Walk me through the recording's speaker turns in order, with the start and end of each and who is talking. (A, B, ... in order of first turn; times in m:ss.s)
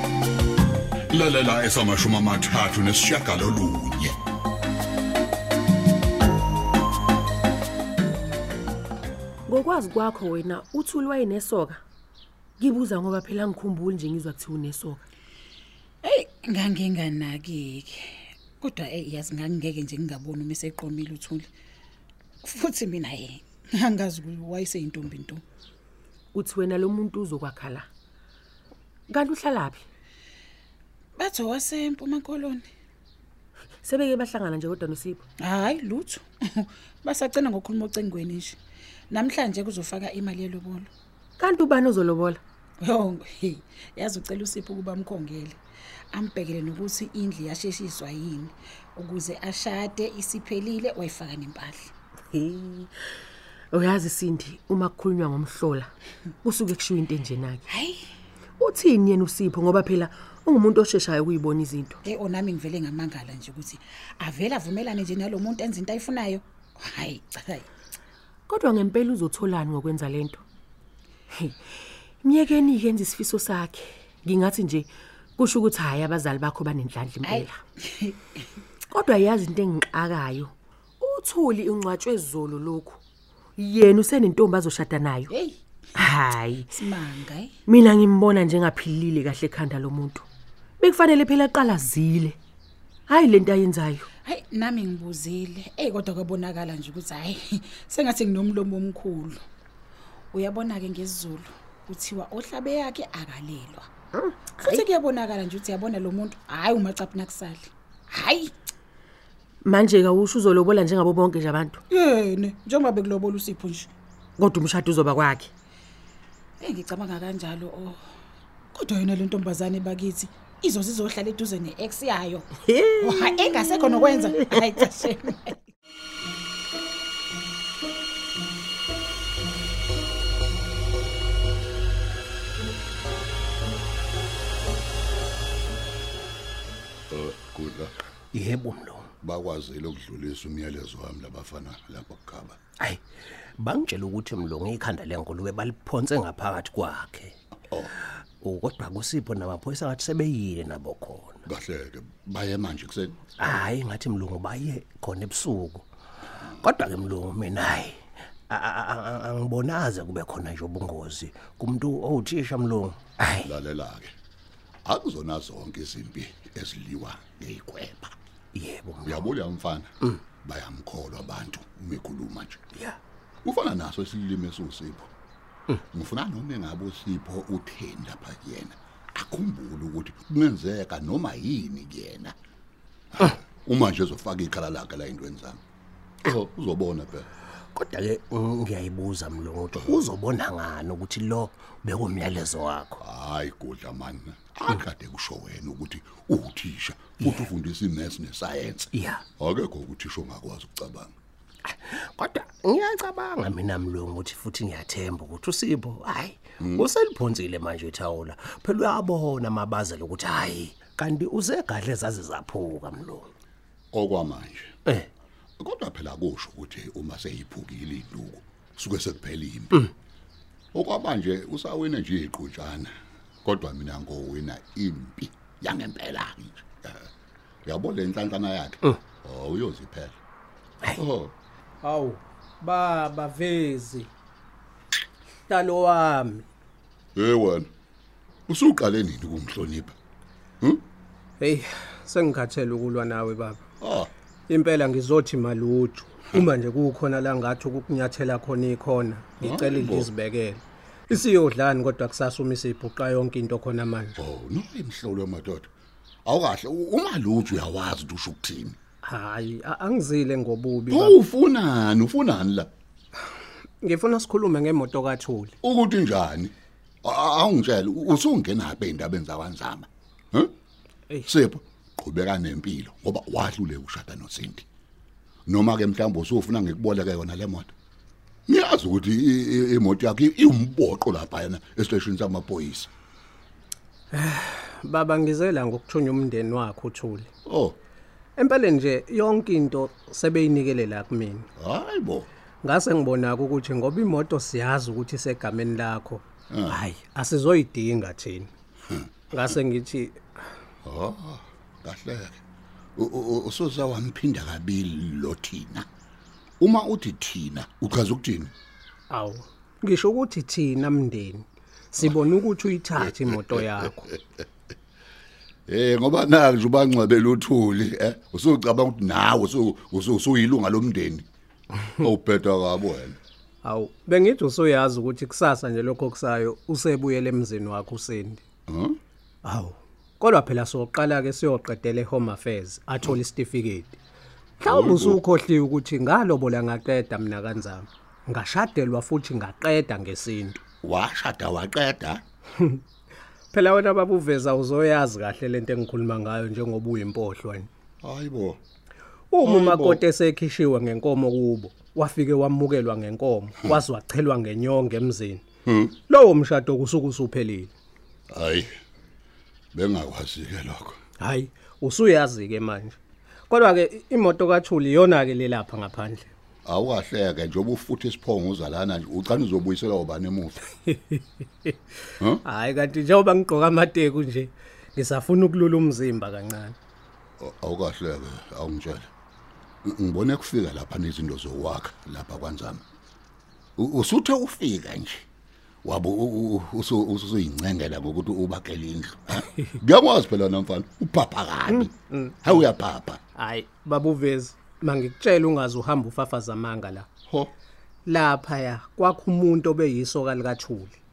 0:01.1-0:04.2 A
0:09.5-0:11.8 B
0:12.6-0:15.0 B
0:16.0-0:21.5 C
0:22.4-0:25.4 C
0:26.3-0:27.8 B
0:29.1-0:29.8 B
0:31.2-0:32.7 C
0:33.8-0:35.2 B
0:35.4-0:38.6 C
0:39.1-0:40.9 C
0:41.4-0:42.4 B
0:42.8-0:45.6 C
0:46.1-0:51.9 C
0:52.3-0:52.9 B
0:53.7-0:55.9 B
0:56.4-0:57.6 B
0:57.7-0:58.0 C
0:58.6-1:02.0 B
1:02.0-1:07.7 C
1:08.5-1:10.4 B
1:12.2-1:17.6 B
1:17.2-1:18.2 C
1:18.9-1:23.0 B
1:23.6-1:25.3 B
1:25.3-1:25.6 C
1:26.0-1:26.7 B
1:26.7-1:27.5 C
1:27.7-1:30.2 B
1:30.8-1:32.4 B
1:33.1-1:34.1 B
1:34.2-1:39.4 C
1:40.3-1:43.9 C
1:44.1-1:44.8 B
1:44.6-1:48.5 C
1:49.6-1:51.8 B
1:51.9-1:53.9 C
1:54.4-1:55.5 B
1:56.6-1:58.0 C
1:58.7-2:02.5 C
2:02.6-2:04.8 B
2:03.0-2:05.5 C
2:17.1-2:18.0 A
2:18.3-2:19.1 D
2:19.2-2:22.6 A
2:23.6-2:27.3 D
2:27.7-2:27.9 A
2:28.4-2:31.4 D
2:31.4-2:33.2 A
2:33.4-2:35.8 D
2:36.6-2:43.5 D
2:43.4-2:44.1 A
2:44.8-2:48.1 A
2:48.5-2:49.2 D
2:49.0-2:49.9 A
2:50.4-2:52.6 A
2:53.4-2:55.1 A
2:55.9-3:02.3 A
3:03.1-3:05.6 A
3:06.2-3:07.3 A
3:07.7-3:13.0 D
3:13.0-3:21.1 A
3:18.9-3:19.2 D
3:21.7-3:33.3 D
3:26.6-3:26.9 A
3:33.9-3:34.7 A
3:35.6-3:39.9 A
3:40.7-3:42.9 A
3:43.4-3:47.1 A
3:47.6-3:50.2 A
3:50.9-3:51.3 A
3:51.8-3:54.1 E
3:55.5-3:56.4 E
3:57.2-3:57.7 A
3:58.5-3:59.9 A
4:01.4-4:03.6 E
4:03.8-4:04.1 A
4:04.5-4:14.2 E
4:09.4-4:10.1 A
4:14.2-4:15.7 A
4:16.2-4:18.8 A
4:19.0-4:21.2 E
4:20.9-4:22.7 A
4:23.8-4:25.5 E
4:25.6-4:30.5 A
4:31.2-4:34.6 A
4:35.4-4:37.7 A
4:38.5-4:42.9 A
4:44.1-4:47.3 E
4:47.4-4:47.8 A
4:48.4-4:51.5 E
4:51.6-4:52.3 A
4:52.6-4:58.5 E
4:56.5-4:56.8 A
4:59.3-5:00.2 E
5:00.8-5:02.4 A
5:03.0-5:05.8 A
5:06.6-5:08.5 A
5:09.1-5:14.1 E
5:15.7-5:21.2 A
5:21.9-5:23.2 A
5:23.6-5:28.4 E
5:28.7-5:29.0 A
5:29.4-5:34.0 E
5:34.6-5:35.2 A
5:34.6-5:40.6 E
5:40.8-5:42.2 A
5:43.5-5:47.7 E
5:48.0-5:48.6 A
5:49.3-5:55.4 E
5:49.4-5:50.0 A
5:55.6-5:55.9 A
5:56.1-5:57.7 E
5:58.3-5:58.7 A
5:59.7-6:01.0 A
6:01.2-6:03.0 E
6:03.5-6:06.3 E
6:06.6-6:10.6 A
6:10.9-6:11.7 E
6:12.4-6:16.8 E
6:17.4-6:19.1 A
6:19.8-6:22.8 A
6:23.8-6:25.2 A
6:25.8-6:33.2 A
6:31.7-6:32.5 E
6:33.4-6:37.1 E
6:37.3-6:37.5 A
6:38.0-6:40.9 E